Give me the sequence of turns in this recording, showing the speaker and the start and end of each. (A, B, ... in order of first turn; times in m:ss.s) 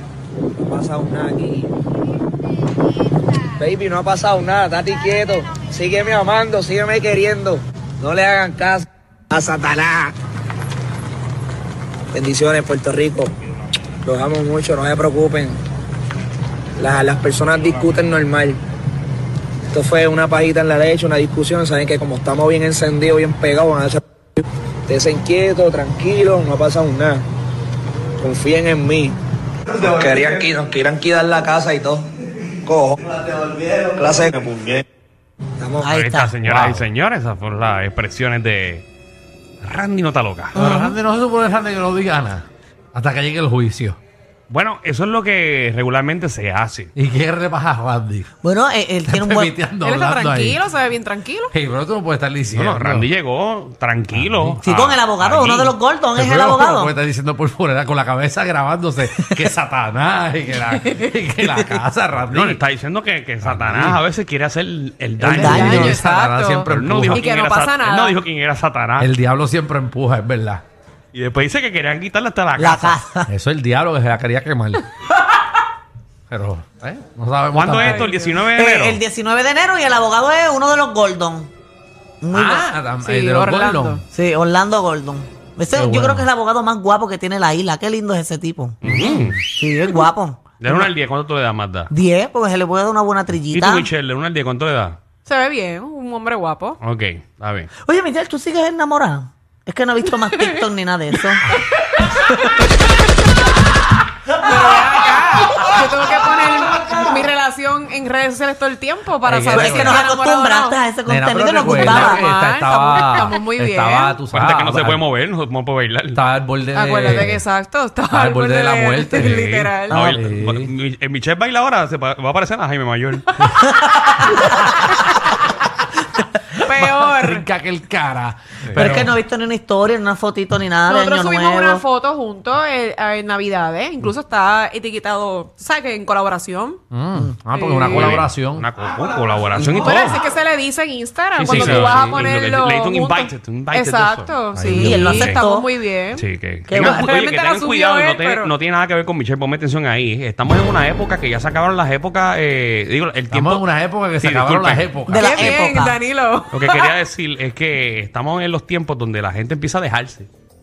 0:00.6-0:01.7 A
0:03.6-0:10.1 A
0:12.1-0:13.3 A
0:14.0-0:15.6 A
0:16.8-0:18.6 A
0:19.7-0:27.2 A
0:28.2-0:29.2 A
0:29.8-0:32.0 A
0:32.6-0:33.0 A
0:33.9-0:34.8 A
0:35.6-0:35.9 A
0:35.8-0:36.4 B
0:35.9-0:38.8 C
0:36.4-0:36.8 D
0:39.6-0:40.6 C
0:40.5-0:44.0 D
0:40.6-0:41.0 B
0:44.5-0:46.9 C
0:46.9-0:48.3 D
0:48.4-0:49.6 B
0:49.0-0:50.6 D
0:49.8-0:51.5 E
0:51.5-0:53.1 D
0:52.5-0:55.7 C
0:54.1-0:54.6 D
0:54.6-0:56.9 B
0:56.2-1:02.6 D
1:02.2-1:05.9 C
1:03.4-1:04.0 D
1:05.2-1:07.3 D
1:05.3-1:06.0 B
1:05.5-1:08.2 E
1:06.7-1:09.1 C
1:09.0-1:10.6 D
1:11.1-1:13.0 C
1:12.6-1:13.3 B
1:13.3-1:14.8 D
1:16.3-1:18.1 D
1:17.5-1:19.0 C
1:17.8-1:18.3 E
1:18.5-1:21.5 B
1:22.2-1:22.7 B
1:22.3-1:24.0 D
1:23.0-1:24.0 E
1:24.1-1:30.9 B
1:25.7-1:26.3 D
1:28.8-1:29.4 C
1:28.9-1:29.3 D
1:30.6-1:31.9 C
1:31.9-1:33.9 B
1:33.5-1:35.0 C
1:35.2-1:36.8 E
1:36.8-1:37.7 C
1:37.8-1:42.6 B
1:44.4-1:50.8 E
1:49.2-1:50.0 D
1:49.5-1:52.3 B
1:51.0-1:55.1 D
1:51.6-1:54.2 E
1:54.3-1:56.2 C
1:56.1-1:57.4 D
1:56.7-2:00.1 E
1:58.1-1:59.5 D
1:59.1-2:03.5 C
1:59.9-2:00.2 B
2:00.1-2:00.7 D
2:03.6-2:04.5 B
2:06.5-2:07.4 E
2:06.7-2:09.2 D
2:08.6-2:08.9 C
2:08.8-2:11.8 B
2:10.9-2:16.8 E
2:16.9-2:18.7 D
2:17.5-2:18.2 E
2:17.8-2:20.2 C
2:19.5-2:20.1 D
2:19.8-2:26.2 E
2:21.4-2:25.4 C
2:21.4-2:22.3 D
2:24.5-2:25.3 D
2:24.7-2:25.7 B
2:26.1-2:35.4 C
2:26.7-2:27.1 B
2:26.8-2:28.5 E
2:33.3-2:35.8 D
2:35.1-2:36.0 B
2:35.2-2:37.0 E
2:36.5-2:40.3 C